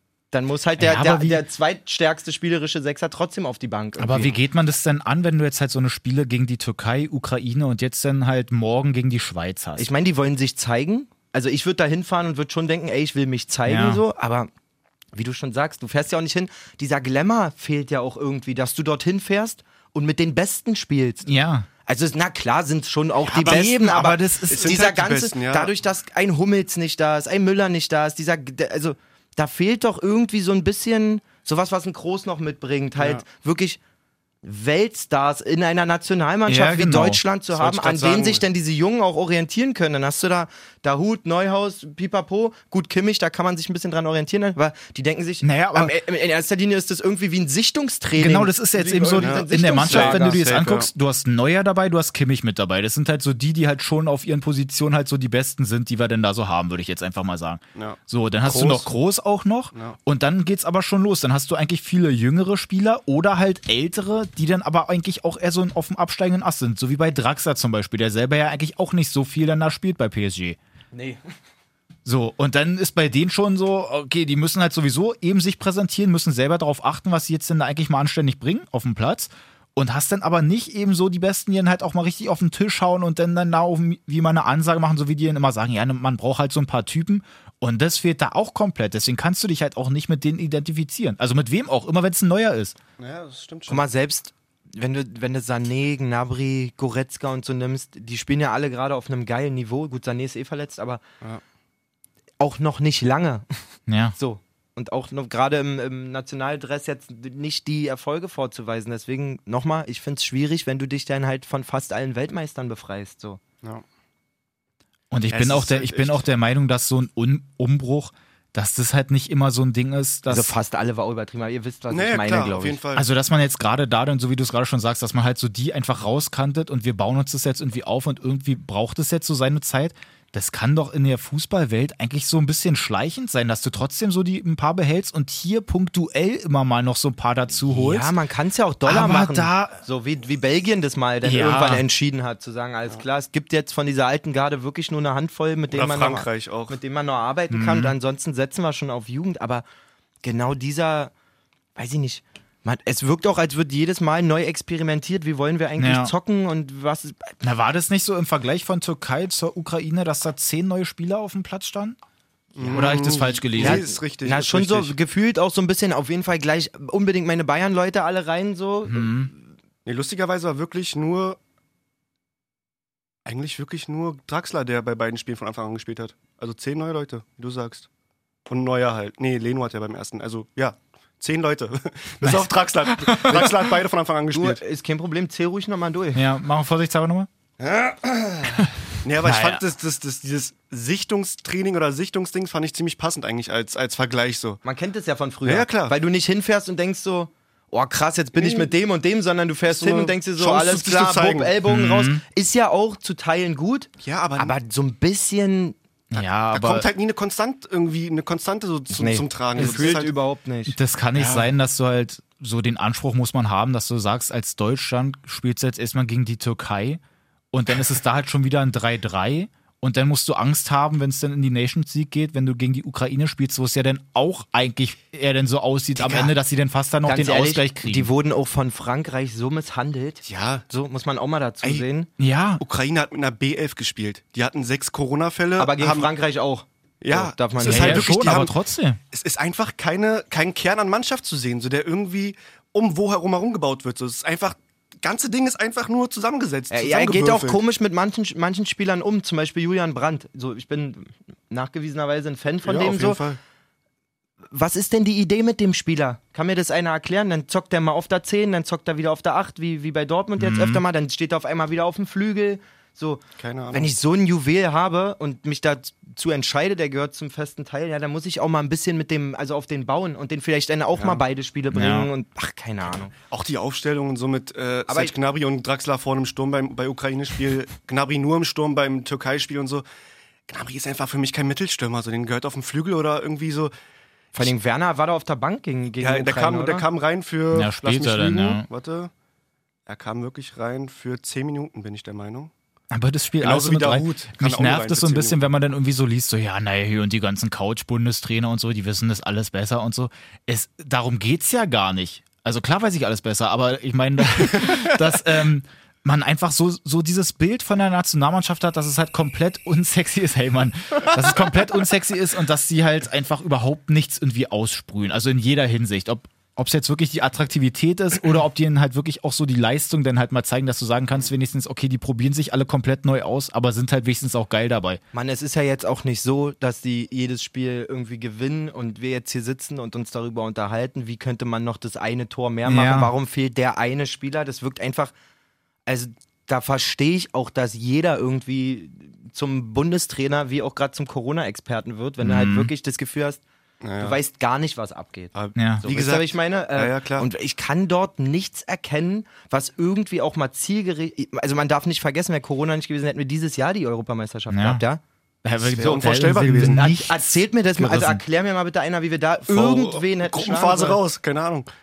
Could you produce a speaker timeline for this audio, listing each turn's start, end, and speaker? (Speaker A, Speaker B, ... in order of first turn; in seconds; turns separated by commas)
Speaker A: 0.3-4.3, Speaker B: 0.8-1.4, Speaker B: 4.0-9.9, Speaker A: 9.8-14.5, Speaker B: 13.7-14.0, Speaker A: 15.1-21.3, Speaker B: 21.2-21.7, Speaker A: 21.9-33.8, Speaker C: 23.2-23.8, Speaker B: 23.4-24.7, Speaker C: 24.5-25.7, Speaker A: 34.4-50.5, Speaker B: 36.5-37.2, Speaker C: 37.5-38.4, Speaker B: 45.4-46.0, Speaker B: 48.1-70.6, Speaker C: 49.1-50.9, Speaker C: 57.7-58.9, Speaker A: 70.9-71.2, Speaker B: 72.0-92.8, Speaker C: 93.0-93.8, Speaker A: 93.7-101.0, Speaker A: 102.4-103.4, Speaker B: 103.9-104.1, Speaker A: 104.1-113.4, Speaker B: 115.1-120.5, Speaker C: 115.3-116.2, Speaker A: 120.3-122.8, Speaker C: 121.9-123.0, Speaker B: 122.9-138.1, Speaker A: 137.7-149.6, Speaker B: 138.8-139.8, Speaker B: 141.2-141.8, Speaker C: 145.7-146.8, Speaker B: 147.5-147.9, Speaker A: 150.2-151.1, Speaker A: 151.8-157.3, Speaker B: 155.8-156.1, Speaker B: 157.4-162.0, Speaker C: 162.6-164.9, Speaker B: 162.6-163.8, Speaker A: 163.6-169.4, Speaker B: 168.9-169.3, Speaker C: 169.8-171.4, Speaker C: 173.2-177.9, Speaker C: 178.5-184.6, Speaker B: 182.2-183.5, Speaker A: 184.3-186.2, Speaker B: 186.1-187.3, Speaker C: 187.6-194.6, Speaker B: 188.5-189.6, Speaker A: 194.6-205.8, Speaker C: 195.4-195.9, Speaker C: 198.3-198.7, Speaker C: 199.7-201.5, Speaker B: 201.6-202.2, Speaker C: 204.0-204.5, Speaker B: 206.1-206.9, Speaker C: 206.2-210.1, Speaker A: 208.9-210.8, Speaker B: 209.6-210.0, Speaker B: 210.7-217.0, Speaker C: 211.2-211.5, Speaker B: 217.5-228.1, Speaker A: 226.0-226.3, Speaker A: 227.0-232.1, Speaker C: 230.2-230.7, Speaker B: 232.2-232.6, Speaker C: 232.6-236.1, Speaker A: 235.6-238.4, Speaker C: 237.0-238.5, Speaker B: 237.6-239.0, Speaker C: 239.1-247.6, Speaker A: 246.7-253.2, Speaker C: 252.6-253.4, Speaker A: 254.5-273.1, Speaker B: 260.4-260.8, Speaker C: 263.4-263.9, Speaker C: 270.9-271.2, Speaker B: 271.7-272.1, Speaker C: 273.3-279.8, Speaker A: 274.9-275.1, Speaker C: 280.5-283.7, Speaker A: 284.3-286.9, Speaker C: 286.0-289.1, Speaker B: 287.5-288.7, Speaker C: 289.9-292.5, Speaker B: 292.9-325.0, Speaker C: 293.4-295.4, Speaker A: 325.1-335.1, Speaker B: 332.6-333.1, Speaker A: 335.9-343.4, Speaker B: 342.2-342.7, Speaker C: 343.8-344.2, Speaker A: 344.0-355.0, Speaker C: 345.3-347.3, Speaker B: 345.5-345.8, Speaker B: 354.5-354.8, Speaker B: 355.4-358.2, Speaker C: 355.7-356.9, Speaker A: 355.8-361.0, Speaker C: 359.5-361.7